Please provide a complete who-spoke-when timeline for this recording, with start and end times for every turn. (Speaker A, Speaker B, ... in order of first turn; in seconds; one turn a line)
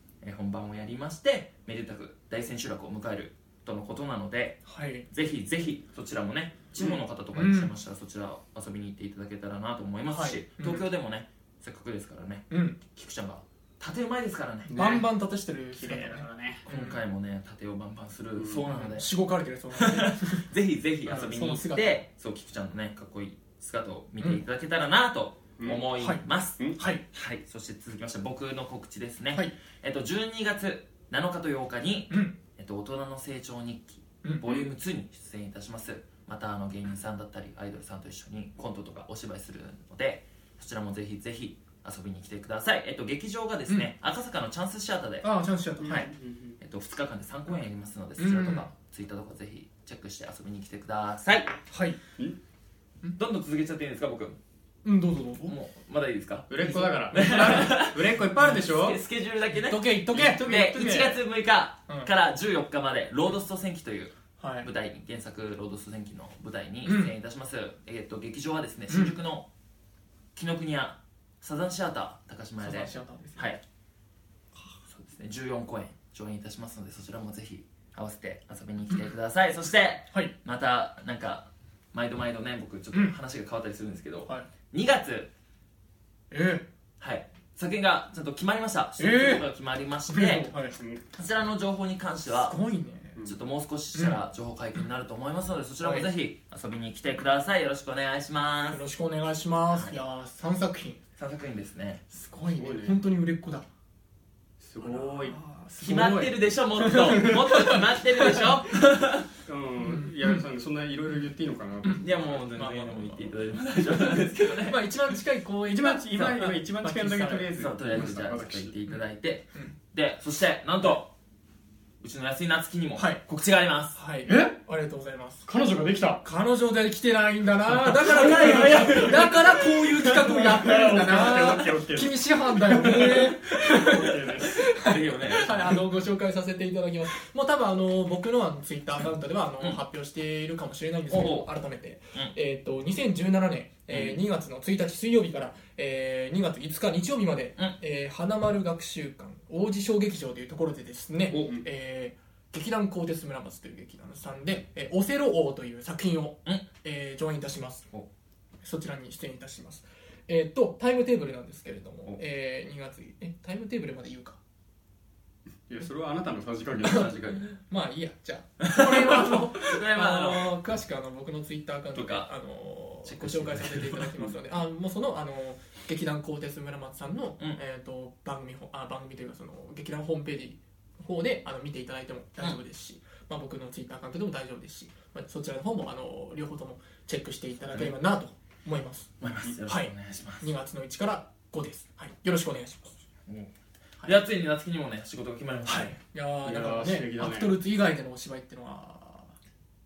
Speaker A: 0.2-14.8
Speaker B: 4.7-5.1
Speaker B: 7.3-7.7
Speaker B: 10.1-10.8
Speaker B: 12.5-12.8
Speaker C: 14.7-15.1
Speaker B: 14.8-17.0
Speaker C: 15.8-16.6
Speaker A: 16.6-19.1
Speaker C: 18.4-18.7
Speaker B: 18.6-20.4
Speaker A: 19.7-45.3
Speaker B: 21.0-22.0
Speaker C: 25.6-25.9
Speaker B: 26.0-26.2
Speaker B: 26.8-27.0
Speaker B: 32.1-32.3
Speaker B: 34.2-34.6
Speaker B: 45.2-46.1
Speaker C: 45.8-46.6
Speaker A: 46.6-51.6
Speaker B: 48.2-48.7
Speaker B: 51.7-52.0
Speaker A: 53.2-54.4
Speaker B: 54.8-55.5
Speaker A: 55.4-56.5
Speaker C: 56.5-59.0
Speaker B: 56.6-57.5
Speaker A: 57.1-69.5
Speaker B: 59.5-60.4
Speaker C: 60.1-61.2
Speaker B: 64.4-64.7
Speaker B: 66.8-67.1
Speaker B: 68.9-69.2
Speaker A: 70.3-73.6
Speaker B: 72.6-73.5
Speaker A: 74.9-85.3
Speaker B: 86.3-86.6
Speaker A: 87.0-90.5
Speaker B: 89.0-89.5
Speaker B: 90.1-90.8
Speaker C: 90.8-91.0
Speaker A: 91.1-92.5
Speaker B: 92.3-93.2
Speaker A: 93.2-98.8
Speaker B: 93.9-94.2
Speaker B: 95.8-96.1
Speaker B: 98.7-101.0
Speaker A: 99.7-100.0
Speaker A: 101.2-102.0
Speaker B: 102.1-103.7
Speaker C: 102.5-103.0
Speaker C: 104.6-105.4
Speaker B: 104.8-108.6
Speaker A: 105.8-109.3
Speaker C: 109.5-112.2
Speaker B: 109.8-110.4
Speaker B: 111.8-113.3
Speaker A: 111.9-114.8
Speaker B: 114.6-117.6
Speaker C: 115.7-118.8
Speaker A: 117.5-121.1
Speaker A: 122.0-124.0
Speaker B: 123.0-123.2
Speaker B: 123.9-125.4
Speaker C: 124.3-124.5
Speaker C: 125.5-126.2
Speaker B: 126.2-157.9
Speaker A: 127.9-130.5
Speaker C: 128.1-129.4
Speaker C: 130.1-134.6
Speaker A: 134.8-135.8
Speaker A: 141.1-141.5
Speaker A: 143.9-144.2
Speaker A: 151.3-151.6
Speaker B: 158.6-164.4
Speaker C: 165.7-167.4
Speaker B: 166.8-189.1
Speaker A: 168.6-170.5
Speaker A: 171.9-172.3
Speaker A: 173.1-174.3
Speaker A: 189.2-190.5
Speaker B: 189.6-192.9
Speaker A: 193.2-195.9
Speaker B: 195.7-199.3
Speaker C: 196.4-197.6